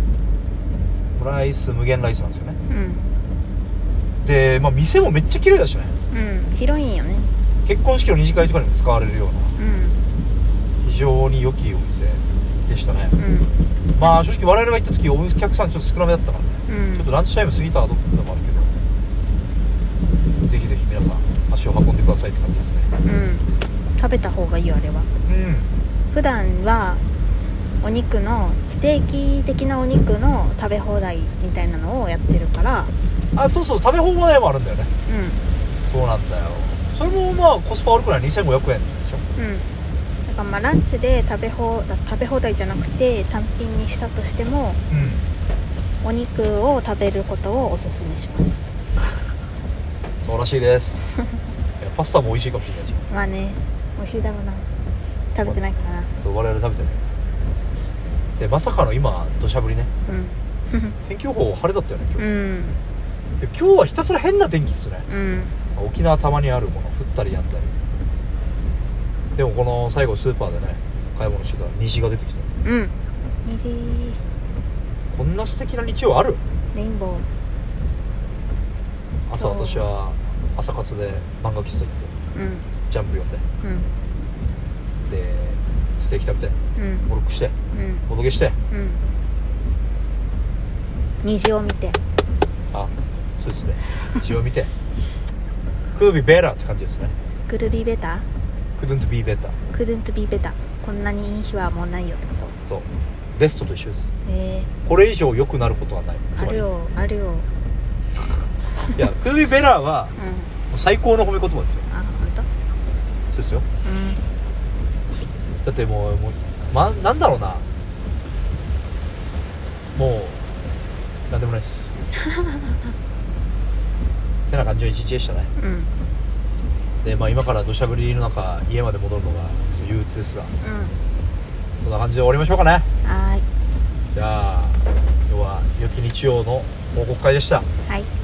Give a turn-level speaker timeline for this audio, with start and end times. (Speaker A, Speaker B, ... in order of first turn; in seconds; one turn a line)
Speaker A: 1.1-2.6
Speaker B: 2.7-3.1
Speaker A: 4.2-6.0
Speaker B: 6.1-7.3
Speaker A: 7.7-9.5
Speaker B: 9.6-10.0
Speaker A: 10.8-13.2
Speaker B: 13.2-14.1
Speaker A: 14.0-18.7
Speaker B: 16.7-17.1
Speaker A: 20.4-22.9
Speaker B: 23.0-23.5
Speaker B: 24.0-25.1
Speaker A: 25.3-25.7
Speaker B: 26.1-27.0
Speaker B: 27.8-32.9
Speaker A: 33.3-34.9
Speaker B: 35.1-35.4
Speaker A: 35.9-39.2
Speaker B: 39.4-39.7
Speaker B: 40.3-44.8
Speaker A: 44.9-45.3
Speaker B: 46.0-48.6
Speaker A: 50.2-51.1
Speaker A: 51.8-53.0
Speaker B: 53.1-54.7
Speaker B: 55.3-56.1
Speaker A: 56.2-57.0
Speaker A: 58.4-59.9
Speaker B: 60.0-61.0
Speaker A: 61.0-62.2
Speaker B: 62.2-62.8
Speaker A: 63.4-65.1
Speaker B: 65.1-65.6
Speaker A: 65.8-67.7
Speaker A: 69.4-72.5
Speaker B: 72.6-74.2
Speaker A: 75.1-76.4
Speaker B: 76.7-77.3
Speaker A: 79.3-82.1
Speaker B: 79.4-79.8
Speaker B: 82.3-82.7
Speaker A: 82.9-83.4
Speaker B: 83.6-83.9
Speaker A: 85.1-87.5
Speaker B: 86.8-87.1
Speaker B: 87.7-88.0
Speaker A: 88.1-88.6
Speaker B: 88.7-89.0
Speaker B: 91.2-92.0
Speaker A: 92.7-94.7
Speaker A: 96.0-97.1
Speaker B: 97.5-98.3
Speaker A: 98.8-99.6
Speaker B: 99.7-102.6
Speaker A: 102.6-104.1
Speaker B: 104.2-104.7
Speaker A: 104.8-106.7
Speaker B: 106.3-107.5
Speaker A: 109.0-110.1
Speaker B: 110.2-110.5
Speaker A: 110.7-111.9
Speaker B: 111.9-112.5
Speaker A: 113.3-113.7
Speaker B: 113.8-114.2
Speaker A: 115.6-117.7
Speaker A: 119.9-120.4
Speaker A: 121.3-122.1
Speaker A: 124.5-125.5
Speaker B: 125.6-125.9
Speaker A: 127.0-130.5
Speaker B: 130.6-131.0
Speaker A: 131.8-132.9
Speaker B: 133.0-133.5
Speaker A: 134.1-137.7
Speaker B: 137.8-138.1